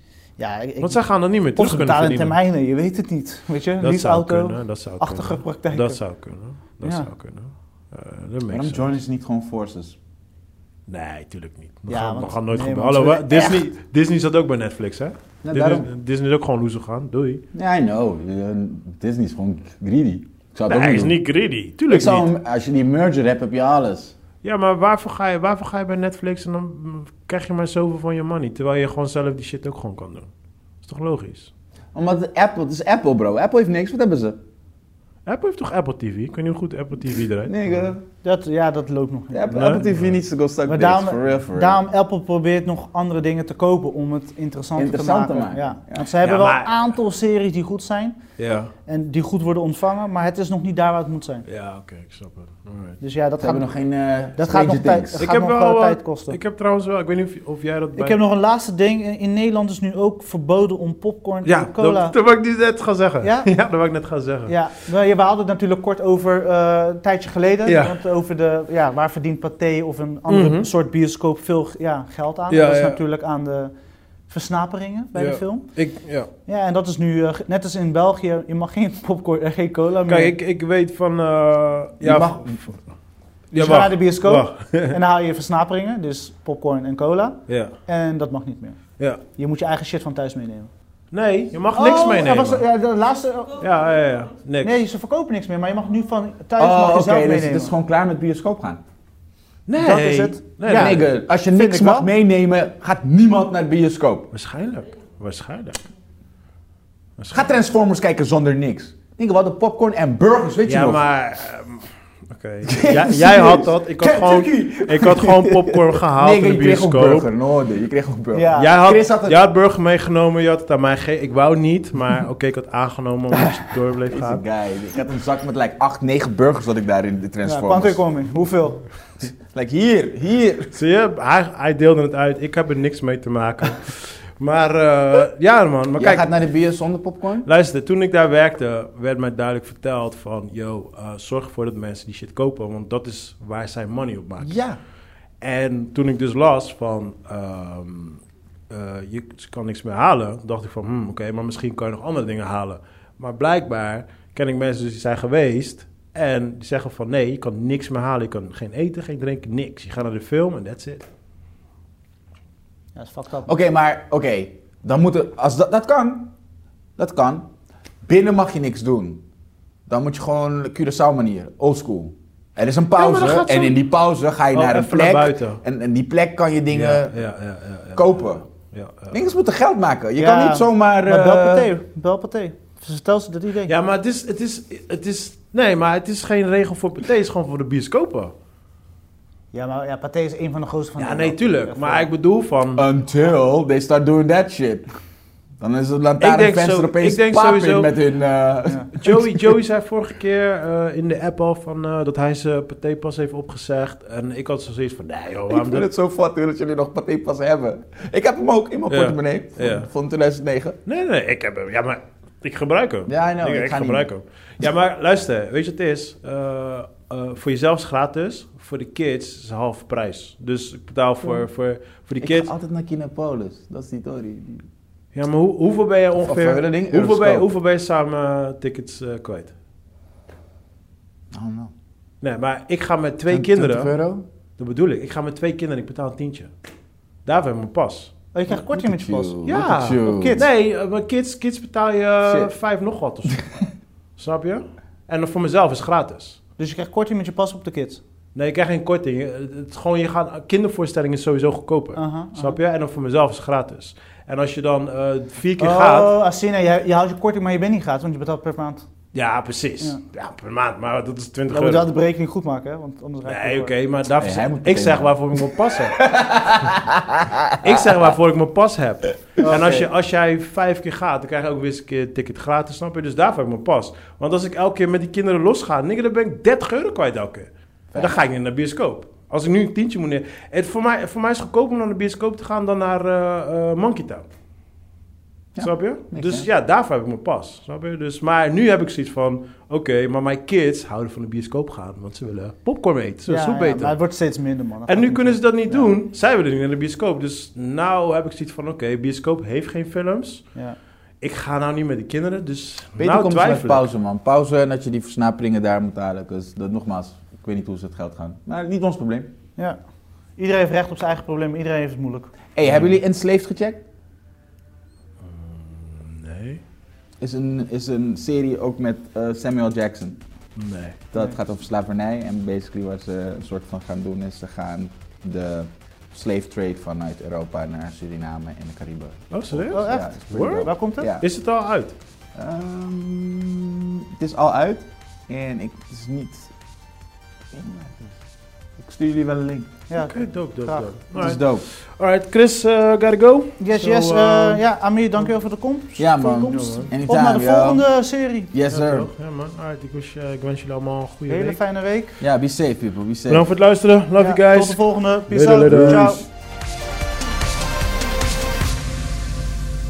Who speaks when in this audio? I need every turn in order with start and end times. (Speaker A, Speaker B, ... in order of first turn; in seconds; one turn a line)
Speaker A: 0.4-1.0
Speaker B: 0.8-2.4
Speaker A: 1.6-6.0
Speaker B: 3.8-8.9
Speaker A: 6.8-7.1
Speaker C: 8.5-9.9
Speaker B: 10.9-17.4
Speaker A: 11.9-13.6
Speaker C: 15.4-15.9
Speaker C: 17.5-21.1
Speaker B: 20.7-22.3
Speaker C: 21.9-24.1
Speaker B: 24.4-30.3
Speaker B: 30.8-31.5
Speaker C: 31.9-34.4
Speaker B: 35.2-37.7
Speaker C: 37.4-38.0
Speaker A: 38.2-39.5
Speaker C: 39.3-41.8
Speaker B: 39.5-40.2
Speaker A: 40.6-48.2
Speaker C: 44.8-46.1
Speaker B: 46.2-46.7
Speaker B: 48.4-48.7
Speaker A: 48.9-51.4
Speaker B: 51.5-53.0
Speaker A: 53.0-53.7
Speaker C: 53.4-55.2
Speaker A: 54.4-56.4
Speaker B: 55.2-58.2
Speaker A: 58.0-62.1
Speaker B: 61.4-64.5
Speaker A: 63.2-63.5
Speaker A: 64.5-73.7
Speaker B: 67.7-68.0
Speaker B: 70.3-70.7
Speaker B: 72.5-73.0
Speaker A: 74.3-75.7
Speaker B: 75.2-76.3
Speaker A: 76.5-80.3
Speaker B: 80.1-82.7
Speaker C: 82.0-82.5
Speaker A: 82.0-82.4
Speaker A: 83.5-88.8
Speaker B: 83.5-85.0
Speaker B: 87.5-87.7
Speaker A: 89.3-90.7
Speaker B: 91.1-92.6
Speaker A: 91.7-93.6
Speaker B: 93.6-94.8
Speaker A: 94.6-97.7
Speaker C: 96.6-98.8
Speaker B: 99.7-101.1
Speaker A: 99.8-102.1
Speaker C: 100.7-104.3
Speaker B: 104.3-105.8
Speaker B: 107.2-107.5
Speaker C: 107.3-111.0
Speaker B: 110.6-117.3
Speaker C: 112.6-119.4
Speaker A: 118.3-118.8
Speaker B: 118.6-124.4
Speaker C: 124.0-128.0
Speaker A: 127.4-128.8
Speaker C: 129.2-130.7
Speaker B: 130.7-136.3
Speaker C: 136.0-137.5
Speaker B: 137.4-144.6
Speaker C: 144.4-144.8
Speaker B: 145.4-161.1
Speaker A: 162.9-163.5
Speaker C: 163.4-166.3
Speaker C: 167.0-167.5
Speaker C: 168.1-169.2
Speaker C: 169.9-177.2
Speaker B: 172.9-173.8
Speaker B: 174.5-175.6
Speaker B: 176.7-179.2
Speaker C: 177.9-178.4
Speaker C: 179.1-181.7
Speaker A: 180.2-183.7
Speaker B: 183.7-188.3
Speaker A: 189.5-192.1
Speaker B: 191.0-192.8
Speaker C: 192.8-194.8
Speaker C: 195.6-199.4
Speaker B: 196.2-197.9
Speaker B: 198.9-205.8
Speaker C: 205.5-210.8
Speaker B: 208.9-209.9
Speaker B: 210.8-222.5
Speaker C: 213.1-214.1
Speaker C: 222.2-224.6
Speaker B: 225.1-229.5
Speaker C: 226.2-227.5
Speaker C: 231.3-231.7
Speaker B: 232.2-233.9
Speaker C: 233.3-234.2
Speaker B: 234.6-236.5
Speaker B: 237.2-238.1
Speaker A: 238.3-239.3
Speaker C: 238.7-240.4
Speaker B: 239.4-243.4
Speaker A: 240.1-240.4
Speaker C: 242.2-242.5
Speaker B: 244.2-246.4
Speaker A: 246.6-248.0
Speaker B: 248.3-256.1
Speaker A: 251.9-252.6
Speaker A: 255.6-258.9
Speaker B: 259.1-261.9
Speaker A: 261.5-263.7
Speaker B: 263.2-266.0
Speaker C: 264.2-265.4
Speaker C: 266.0-267.9
Speaker B: 267.6-284.2
Speaker A: 269.4-269.9
Speaker C: 277.9-278.2
Speaker C: 285.6-286.5
Speaker B: 285.6-293.9
Speaker A: 293.3-295.9
Speaker B: 294.9-300.5
Speaker B: 301.2-303.9
Speaker C: 303.0-309.3
Speaker A: 310.4-312.3
Speaker C: 312.5-313.8
Speaker B: 312.6-313.0
Speaker B: 315.2-316.6
Speaker C: 317.2-320.2
Speaker B: 320.6-321.0
Speaker C: 321.1-331.2
Speaker B: 329.3-331.9
Speaker A: 329.7-331.1
Speaker C: 332.3-336.5
Speaker C: 337.5-338.1
Speaker C: 338.8-339.7
Speaker A: 339.9-341.0
Speaker B: 339.9-344.6
Speaker C: 341.1-341.6
Speaker A: 343.6-348.5
Speaker C: 346.0-347.8
Speaker B: 346.5-346.9
Speaker C: 348.5-349.1
Speaker B: 348.7-351.6
Speaker A: 351.3-352.2
Speaker C: 352.2-353.5
Speaker B: 353.3-356.2
Speaker A: 354.2-356.2
Speaker C: 355.7-356.1